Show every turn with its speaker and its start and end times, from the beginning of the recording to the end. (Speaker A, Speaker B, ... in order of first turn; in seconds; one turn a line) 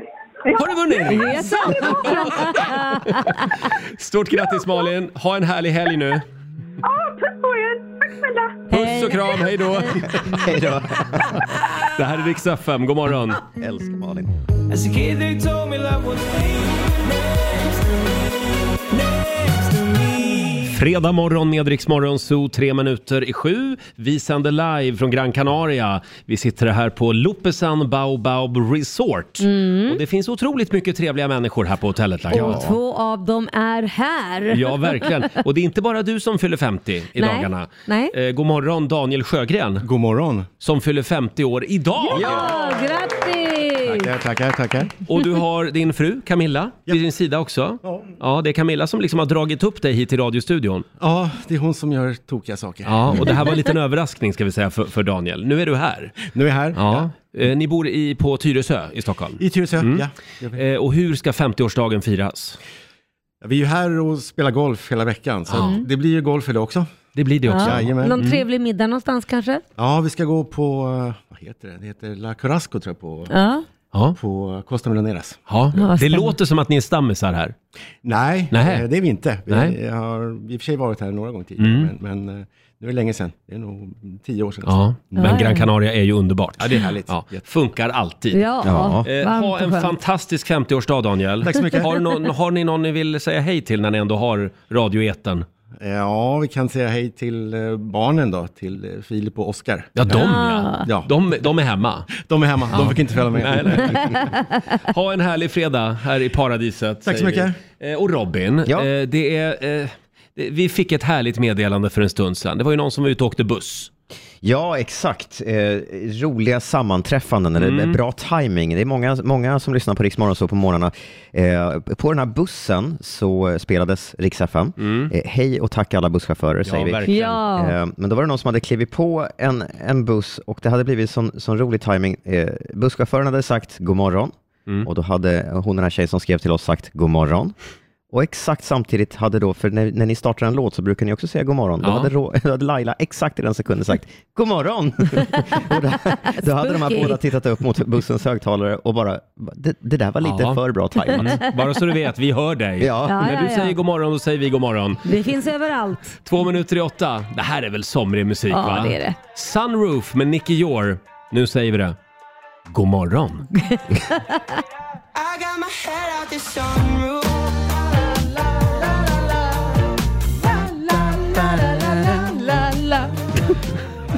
Speaker A: 0.4-2.6
Speaker B: 0.5-6.2
Speaker C: 1.1-3.6
Speaker A: 4.5-4.8
Speaker A: 6.8-8.7
Speaker C: 8.7-9.9
Speaker B: 8.7-10.5
Speaker D: 10.2-11.4
Speaker B: 11.9-13.4
Speaker D: 13.5-14.3
Speaker E: 14.7-18.2
Speaker E: 18.9-20.7
Speaker B: 20.6-32.6
Speaker C: 29.4-30.0
Speaker C: 32.3-35.3
Speaker D: 32.4-32.7
Speaker B: 34.5-39.9
Speaker C: 37.2-38.1
Speaker F: 39.8-40.5
Speaker B: 40.6-42.5
Speaker C: 42.1-44.1
Speaker F: 42.1-42.5
Speaker F: 43.8-44.9
Speaker B: 45.0-50.9
Speaker F: 51.0-53.5
Speaker B: 52.8-56.2
Speaker F: 56.2-57.1
Speaker B: 56.7-62.6
Speaker F: 59.4-60.6
Speaker F: 63.4-68.2
Speaker B: 65.5-65.8
Speaker C: 65.6-65.8
Speaker B: 67.2-68.4
Speaker C: 67.5-69.6
Speaker F: 69.8-73.3
Speaker C: 73.3-73.6
Speaker F: 74.2-75.4
Speaker B: 75.5-77.5
Speaker C: 75.7-76.3
Speaker F: 78.0-85.5
Speaker B: 78.5-78.8
Speaker B: 79.5-79.7
Speaker B: 81.6-81.9
Speaker B: 84.6-95.4
Speaker C: 85.2-85.7
Speaker F: 86.6-87.4
Speaker C: 88.3-89.9
Speaker D: 88.6-89.0
Speaker F: 91.4-91.9
Speaker F: 95.8-100.2
Speaker B: 100.0-102.1
Speaker C: 100.1-100.8
Speaker F: 100.8-101.1
Speaker F: 102.1-104.2
Speaker B: 102.7-104.3
Speaker B: 104.8-113.9
Speaker F: 107.0-107.6
Speaker D: 114.4-134.3
Speaker B: 117.6-118.0
Speaker B: 124.8-125.1
Speaker B: 126.6-127.4
Speaker C: 127.0-127.7
Speaker D: 134.8-137.5
Speaker D: 138.1-151.4
Speaker B: 141.8-142.1
Speaker C: 146.3-147.2
Speaker B: 150.2-150.6
Speaker B: 151.1-155.0
Speaker D: 152.8-153.3
Speaker C: 153.0-153.7
Speaker C: 155.0-156.2
Speaker B: 156.2-161.9
Speaker C: 158.5-159.2
Speaker B: 162.7-163.5
Speaker C: 163.6-164.4
Speaker E: 165.1-169.8
Speaker E: 170.8-172.1
Speaker C: 171.3-173.1